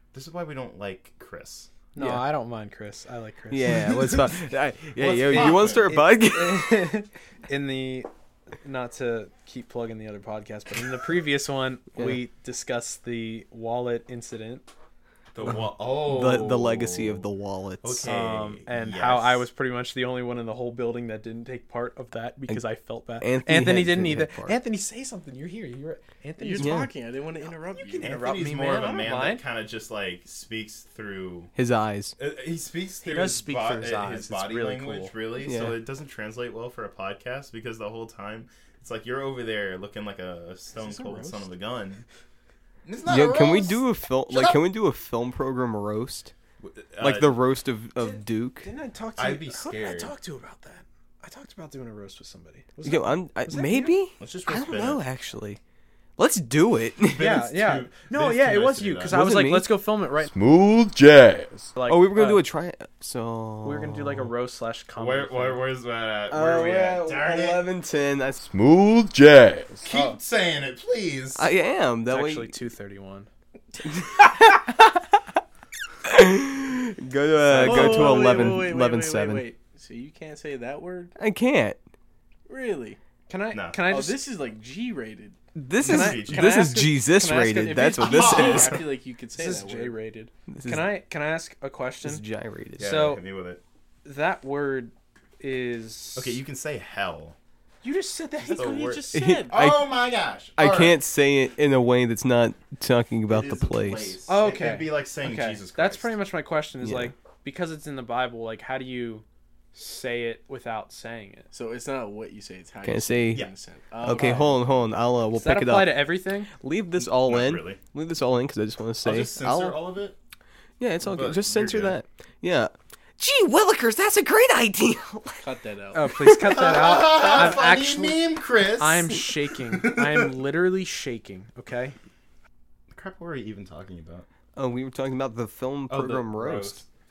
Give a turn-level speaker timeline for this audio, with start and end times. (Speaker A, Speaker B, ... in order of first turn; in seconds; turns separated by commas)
Speaker A: 0.1-1.7, Speaker B: 1.9-4.1, Speaker C: 2.0-2.2, Speaker C: 3.5-6.9, Speaker A: 4.0-4.4, Speaker A: 5.0-6.0, Speaker B: 5.4-8.1, Speaker B: 8.6-14.7, Speaker C: 12.0-12.2, Speaker A: 15.3-17.3, Speaker C: 15.5-18.1, Speaker A: 17.8-19.5, Speaker B: 18.0-26.9, Speaker C: 23.2-24.6, Speaker D: 26.4-28.1, Speaker C: 26.6-26.9, Speaker B: 27.8-29.4, Speaker A: 28.0-31.5, Speaker C: 31.5-32.1, Speaker A: 32.2-42.0, Speaker B: 33.0-35.1, Speaker C: 35.4-35.8, Speaker B: 40.8-41.5, Speaker A: 42.9-44.6, Speaker C: 43.1-46.3, Speaker A: 46.6-47.4, Speaker C: 47.0-48.7, Speaker B: 48.6-54.0, Speaker A: 49.1-50.1, Speaker C: 52.8-55.6, Speaker A: 54.2-55.0, Speaker C: 56.2-57.4, Speaker A: 57.1-59.2, Speaker B: 57.1-60.3, Speaker C: 59.1-59.9, Speaker E: 60.2-61.7, Speaker B: 61.8-62.5, Speaker C: 61.9-64.3, Speaker B: 63.6-65.6, Speaker A: 65.0-67.7, Speaker C: 66.3-68.5, Speaker E: 68.5-69.9, Speaker A: 69.8-71.5, Speaker B: 69.9-70.2, Speaker C: 71.4-72.6, Speaker B: 72.1-73.3, Speaker C: 73.8-75.0, Speaker C: 76.0-79.5, Speaker A: 77.5-78.6, Speaker D: 77.6-81.1, Speaker C: 81.2-81.8, Speaker D: 82.5-83.0, Speaker B: 83.3-84.2, Speaker A: 83.5-83.9, Speaker D: 83.9-85.4, Speaker C: 85.5-88.8, Speaker A: 85.8-86.7, Speaker B: 85.8-88.1, Speaker D: 87.2-90.0, Speaker A: 88.0-88.8, Speaker B: 89.3-92.2, Speaker C: 90.5-90.9, Speaker C: 92.0-93.0, Speaker A: 92.8-93.6, Speaker B: 92.8-93.2, Speaker B: 94.0-96.4, Speaker A: 96.1-97.4, Speaker B: 97.8-98.9, Speaker D: 98.4-99.7, Speaker A: 98.5-101.0, Speaker C: 99.1-99.9, Speaker C: 100.6-104.2, Speaker A: 103.3-106.1, Speaker B: 104.3-111.5, Speaker C: 106.8-107.1, Speaker D: 111.5-114.6, Speaker C: 112.8-113.5, Speaker C: 114.0-119.8, Speaker B: 114.1-114.5, Speaker B: 115.3-116.5, Speaker A: 117.0-117.8, Speaker A: 119.0-120.2, Speaker C: 120.8-125.5, Speaker A: 121.0-122.0, Speaker D: 125.4-126.2, Speaker B: 125.9-132.0, Speaker C: 126.1-126.7, Speaker A: 126.5-130.3, Speaker A: 132.9-134.2, Speaker C: 134.5-136.8, Speaker A: 135.9-136.8